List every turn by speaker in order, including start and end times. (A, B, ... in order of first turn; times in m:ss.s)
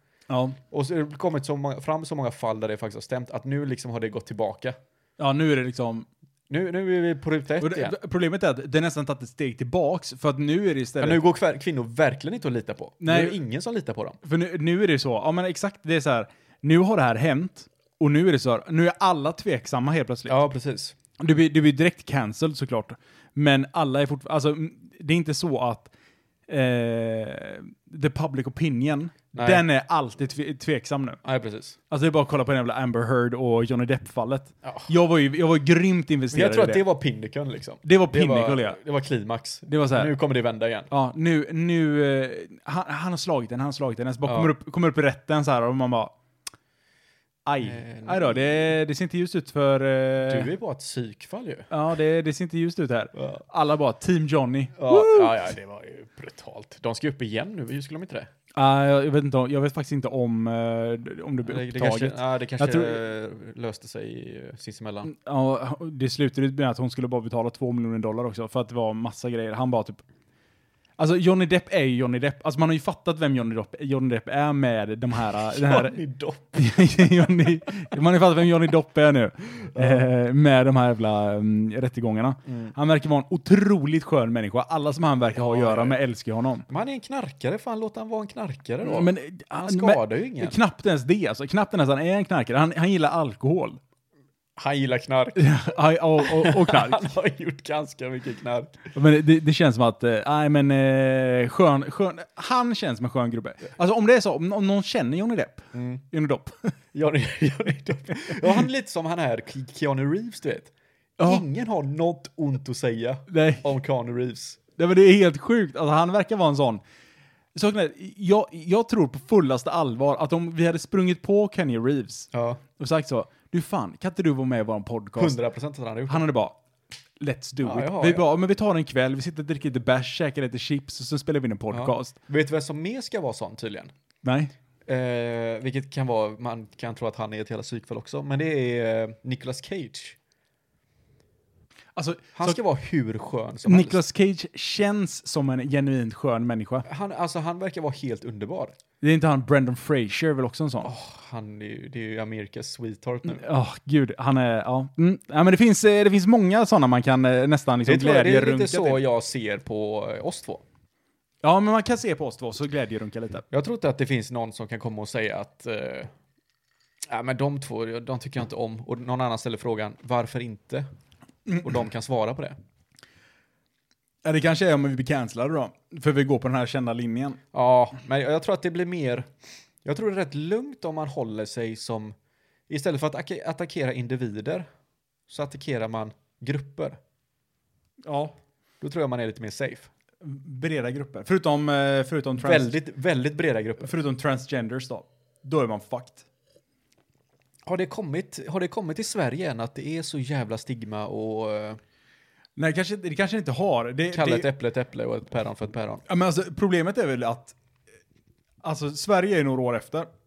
0:00.3-0:00.6 A
0:00.7-0:04.8 B
0:05.2-0:06.1 A
0:06.5-0:08.0 B
0:07.6-0:11.2 A
0:11.0-0:14.2 B
0:13.0-0:13.4 A
0:14.2-0:20.4 A
0:20.3-0:20.9 B
0:21.2-0:25.9 A
0:26.5-0:31.2 A
0:29.3-0:29.6 B
0:31.2-0:31.8 B
0:31.9-0:36.8 A
0:34.6-0:34.9 B
0:36.3-0:40.9 B
0:37.8-0:38.8 A
0:39.7-0:40.1 A
0:40.9-0:46.1 A
0:44.2-0:44.5 B
0:47.4-0:50.5 A
0:47.6-0:48.7 B
0:50.2-0:51.7 B
0:51.7-0:55.5 A
0:53.1-0:53.4 B
0:54.8-0:58.3 B
0:58.5-1:03.0 A
1:01.4-1:05.1 B
1:05.0-1:10.0 A
1:11.0-1:16.0 A
1:15.4-1:17.9 B
1:16.5-1:26.6 A
1:19.7-1:20.0 B
1:22.4-1:22.7 B
1:25.3-1:26.0 B
1:26.7-1:29.1 B
1:28.8-1:33.8 A
1:29.6-1:30.6 B
1:34.6-1:38.9 B
1:35.4-1:37.1 A
1:38.9-1:46.7 A
1:45.7-1:46.0 B
1:46.9-1:54.6 B
1:48.2-1:48.6 A
1:51.2-1:51.4 A
1:53.3-1:53.6 A
1:54.8-1:56.8 A
1:57.5-2:05.4 A
2:02.3-2:02.6 B
2:05.2-2:06.2 B
2:06.1-2:06.6 A
2:07.2-2:12.1 A
2:07.6-2:08.2 B
2:11.7-2:13.9 B
2:14.2-2:14.5 A
2:14.9-2:20.2 B
2:21.9-2:22.6 A
2:22.4-2:24.0 B
2:23.6-2:26.8 A
2:26.8-2:28.8 B
2:29.0-2:30.9 A
2:30.8-2:33.4 B
2:33.2-2:39.0 A
2:37.8-2:40.6 B
2:41.4-2:43.4 A
2:43.5-2:46.1 B
2:47.0-2:50.9 B
2:51.6-2:52.6 B
2:54.2-2:57.4 A
2:57.5-2:59.3 B
2:59.8-3:02.1 B
3:02.7-3:04.7 B
3:05.3-3:07.0 B
3:08.0-3:08.4 A
3:08.8-3:09.9 B
3:10.2-3:12.7 A
3:12.4-3:13.9 B
3:13.8-3:16.2 A
3:17.7-3:21.8 B
3:22.6-3:24.5 A
3:24.1-3:26.0 B
3:26.0-3:27.5 A
3:28.6-3:30.1 A